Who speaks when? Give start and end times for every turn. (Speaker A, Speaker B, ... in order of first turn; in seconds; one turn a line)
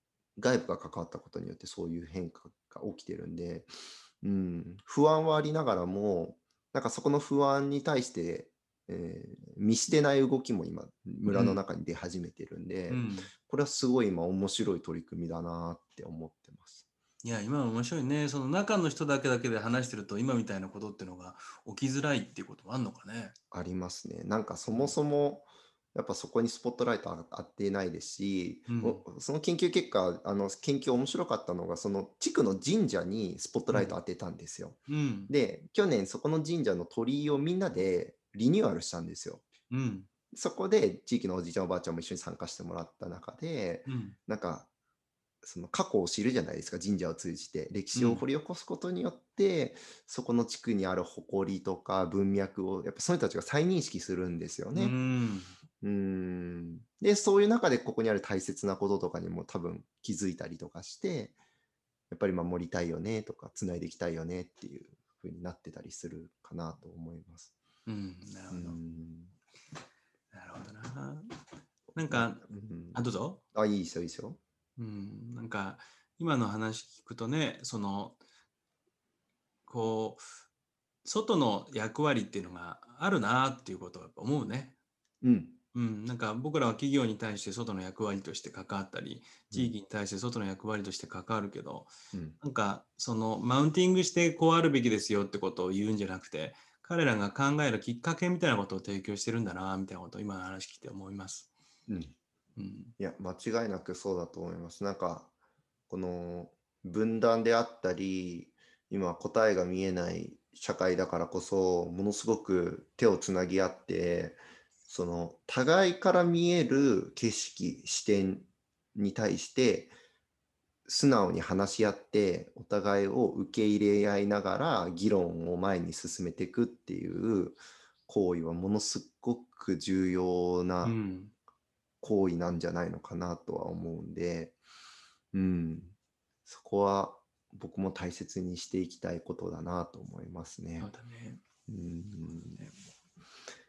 Speaker A: 0.4-16.9
Speaker B: 11.3-11.6
Speaker B: 12.9-13.3
Speaker B: 17.2-23.4
Speaker A: 23.5-39.5
Speaker B: 28.7-29.0
Speaker B: 34.9-35.3
Speaker B: 39.7-40.1
Speaker A: 40.3-44.7
Speaker B: 43.9-44.2
Speaker A: 45.4-55.0
Speaker B: 48.0-48.3
Speaker B: 54.7-55.6
Speaker A: 55.8-61.4
Speaker A: 62.1-67.5
Speaker B: 67.9-68.8
Speaker A: 68.5-69.3
Speaker B: 70.3-71.3
Speaker B: 72.0-73.4
Speaker A: 72.1-74.4
Speaker B: 74.8-78.2
Speaker B: 79.7-80.3
Speaker B: 81.0-84.8
Speaker A: 85.2-85.6
Speaker B: 85.7-101.5
Speaker A: 92.1-92.4
Speaker A: 101.9-102.2
Speaker B: 102.6-102.9
Speaker A: 103.0-105.3
Speaker A: 105.9-119.9
Speaker A: 120.9-130.9
Speaker B: 130.8-131.3
Speaker A: 132.0-134.6
Speaker A: 135.3-135.9
Speaker A: 136.5-140.9
Speaker B: 140.8-141.4
Speaker A: 141.7-142.6